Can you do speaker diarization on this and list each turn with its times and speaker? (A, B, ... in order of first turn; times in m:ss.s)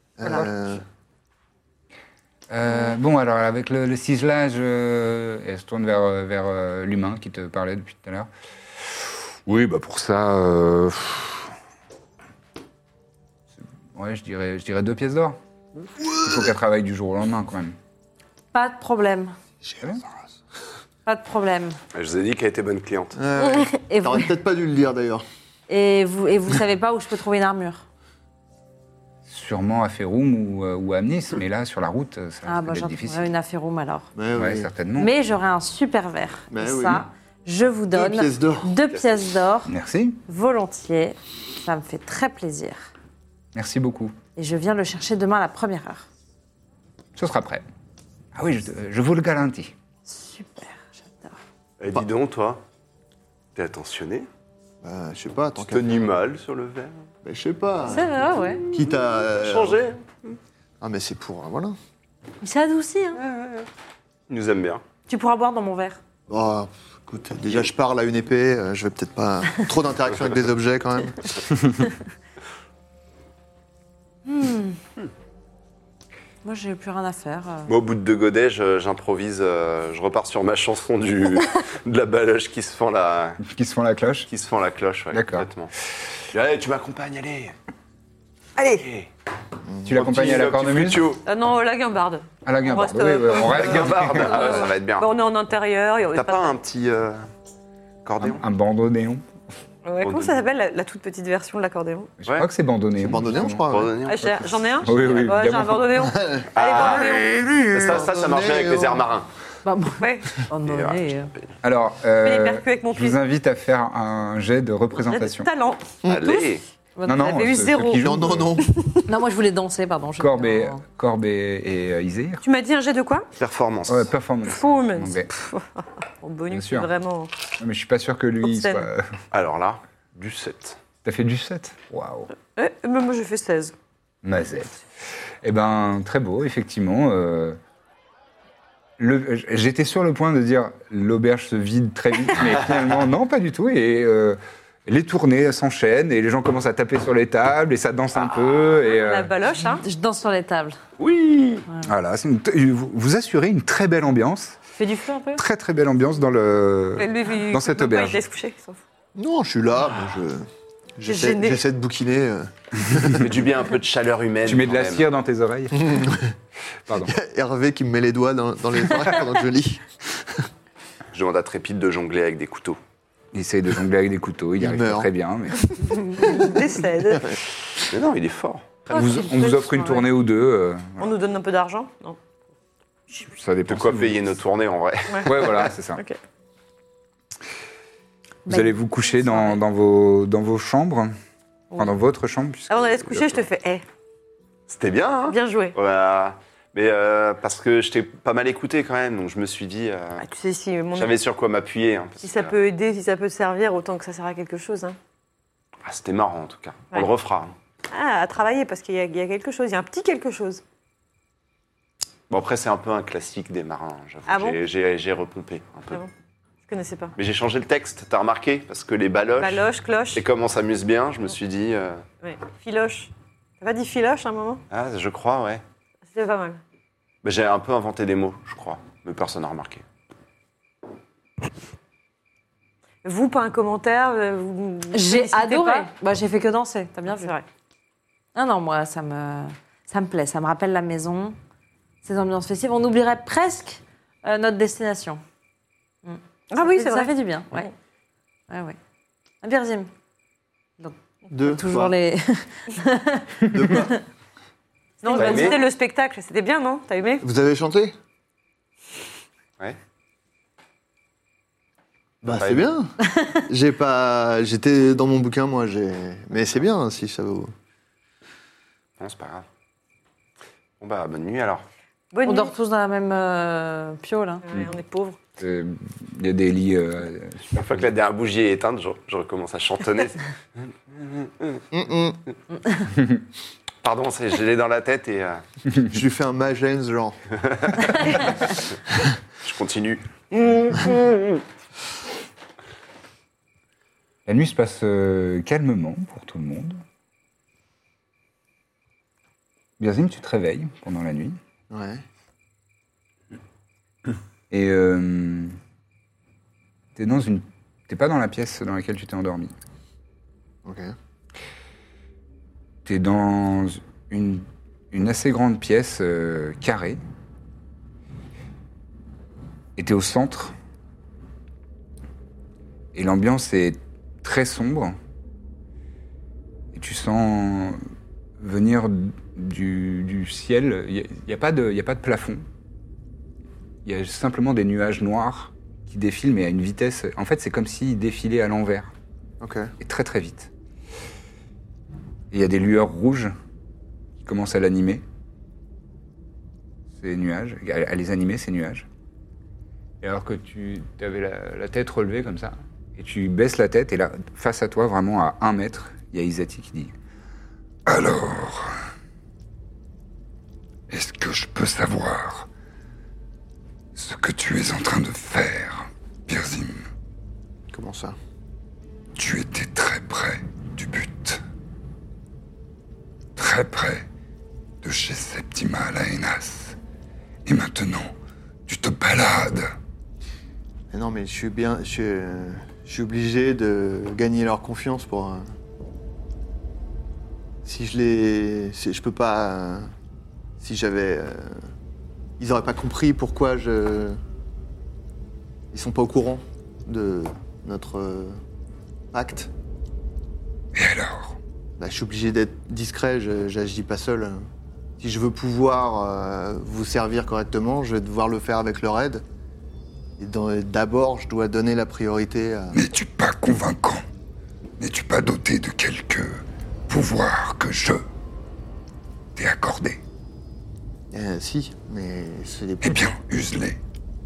0:00.2-0:00.8 A
0:02.5-0:08.3 B
0:08.9-0:11.4 B
0:13.9-0:15.4 B
0:16.1-0:17.8 B
0:18.5-0:19.3 C
0:21.0-0:21.8 C
0:21.9-0:23.1 D
0:23.1-0:25.2 A
0:23.8-0:24.3 C
0:25.7-0:27.8 C
0:29.3-0:33.3 B
0:32.4-0:34.1 C
0:34.2-0:34.7 A
0:34.3-0:35.1 B
0:35.0-0:39.7 C
0:36.5-0:37.0 A
0:37.9-0:38.8 A
0:39.7-0:40.2 B
0:40.3-0:42.9 C
0:43.5-0:44.2 B
0:44.4-0:46.0 C
0:47.2-0:47.6 B
0:48.3-0:49.7 B
0:50.0-0:51.4 C
0:51.8-0:52.6 D
0:53.5-0:54.3 D
0:54.8-0:56.1 A
0:55.6-0:57.0 D
0:57.2-0:59.8 A
0:57.8-0:58.6 C
0:59.4-1:00.4 D
1:00.8-1:01.8 A
1:02.4-1:03.4 C
1:04.3-1:04.8 D
1:05.1-1:06.0 C
1:06.3-1:11.3 A
1:14.2-1:14.8 C
1:16.4-1:17.7 C
1:17.7-1:23.4 D
1:23.4-1:24.3 B
1:24.3-1:25.7 D
1:25.1-1:25.5 B
1:26.3-1:27.5 D
1:28.6-1:28.8 E
1:28.8-1:29.1 D
1:29.7-1:30.1 A
1:29.8-1:31.1 B
1:29.8-1:31.2 D
1:31.2-1:36.6 E
1:32.4-1:34.5 B
1:33.3-1:35.1 D
1:36.1-1:37.2 D
1:38.0-1:38.4 D
1:38.2-1:39.2 B
1:39.8-1:42.1 E
1:40.0-1:40.4 D
1:42.2-1:43.7 B
1:43.0-1:43.9 A
1:43.7-1:45.4 D
1:44.0-1:47.4 E
1:44.2-1:45.8 B
1:46.0-1:46.5 A
1:46.5-1:49.3 D
1:47.7-1:49.1 A
1:49.6-1:51.3 C
1:50.0-1:50.4 E
1:50.6-1:51.4 D
1:51.6-1:55.5 B
1:52.2-1:53.2 E
1:54.9-1:56.4 E
1:56.0-1:56.3 A
1:56.0-1:56.6 D
1:57.0-1:58.0 E
1:57.0-1:58.6 B
1:58.0-1:58.7 A
1:59.0-2:00.8 C
2:00.2-2:02.4 B
2:02.4-2:03.3 E
2:03.4-2:04.1 D
2:03.9-2:05.3 B
2:04.4-2:07.3 E
2:06.5-2:06.9 B
2:07.6-2:09.1 B
2:08.4-2:08.9 E
2:09.3-2:10.8 D
2:11.0-2:12.3 B
2:12.4-2:13.7 E
2:14.2-2:14.8 B
2:15.4-2:17.6 B
2:19.0-2:29.3 B
2:28.8-2:29.8 E
2:29.8-2:30.8 C
2:31.0-2:31.6 D
2:31.8-2:34.6 B
2:34.7-2:35.4 C
2:35.3-2:38.2 B
2:37.0-2:38.8 E
2:39.1-2:43.3 A
2:41.0-2:41.6 E
2:43.1-2:45.0 D
2:44.4-2:46.1 B
2:45.7-2:46.3 A
2:46.9-2:47.1 B
2:47.0-2:50.4 A
2:51.1-2:52.8 D
2:53.3-2:55.7 B
2:54.6-2:55.1 A
2:56.2-2:57.3 E
2:57.9-2:58.8 D
2:58.9-2:59.3 E
2:58.9-3:01.1 B
2:58.9-3:00.0 C
3:01.0-3:02.2 E
3:03.3-3:04.3 B
3:03.7-3:05.7 D
3:05.2-3:06.0 B
3:08.4-3:09.6 C
3:08.5-3:11.1 B
3:11.8-3:13.4 B
3:12.7-3:13.8 E
3:14.7-3:20.2 D
3:15.3-3:15.7 E
3:20.2-3:21.2 E
3:20.9-3:22.5 D
3:22.2-3:25.0 E
3:25.8-3:27.5 D
3:27.9-3:30.6 E
3:32.3-3:36.0 D
3:34.3-3:34.6 E
3:36.7-3:37.1 E
3:37.2-3:42.0 D
3:39.4-3:40.2 E
3:42.2-3:44.6 E
3:44.7-3:45.6 D
3:46.1-3:46.6 E
3:47.2-3:49.8 D
3:53.0-3:55.9 E
3:54.9-3:57.3 C
3:57.2-3:57.4 E
3:58.3-4:01.4 C
4:02.0-4:05.2 C
4:06.0-4:07.7 C
4:06.5-4:07.7 E
4:08.5-4:08.8 C
4:09.4-4:09.9 C
4:10.8-4:14.0 C
4:11.3-4:11.9 A
4:13.5-4:14.0 A
4:15.0-4:17.2 E
4:15.0-4:15.5 C
4:15.1-4:15.6 D
4:17.2-4:17.9 A
4:22.2-4:27.5 A
4:22.2-4:22.7 D
4:23.0-4:23.4 C
4:29.0-4:29.4 D
4:30.8-4:31.6 D
4:32.1-4:32.5 E
4:32.2-4:34.4 C
4:34.4-4:35.2 E
4:35.4-4:37.6 B
4:37.5-4:40.2 D
4:40.9-4:41.6 D
4:41.7-4:42.2 A
4:43.8-4:45.4 D
4:45.9-4:47.2 A
4:47.5-4:48.6 D
4:49.4-4:51.4 D
4:54.2-4:56.8 B
4:59.8-5:01.4 B
5:01.7-5:02.0 A
5:04.5-5:05.6 B
5:07.0-5:09.5 B
5:10.6-5:10.9 A
5:12.8-5:17.0 B
5:19.8-5:20.5 B
5:22.9-5:25.0 B
5:26.7-5:27.8 B
5:28.4-5:32.4 B
5:33.8-5:38.9 B
5:39.4-5:39.7 A
5:39.8-5:40.5 B
5:42.3-5:43.3 B
5:44.2-5:45.0 B
5:47.0-5:48.9 B
5:50.0-5:56.9 B
5:57.8-5:58.8 B
6:00.9-6:02.5 B
6:04.0-6:06.8 B
6:07.7-6:08.2 A
6:09.2-6:11.4 B
6:13.4-6:14.0 B
6:14.8-6:16.8 B
6:17.4-6:18.1 B
6:18.7-6:19.7 B
6:20.9-6:25.4 A
6:27.6-6:29.9 A
6:30.6-6:31.6 A
6:32.4-6:34.2 A
6:35.7-6:38.4 A
6:39.1-6:39.5 A
6:40.7-6:41.4 B
6:41.8-6:44.4 A
6:45.0-6:49.2 A
6:50.2-6:52.8 A
6:52.7-6:54.0 B
6:54.8-6:58.0 B
6:59.4-7:00.0 B
7:01.1-7:03.2 A
7:02.8-7:03.8 B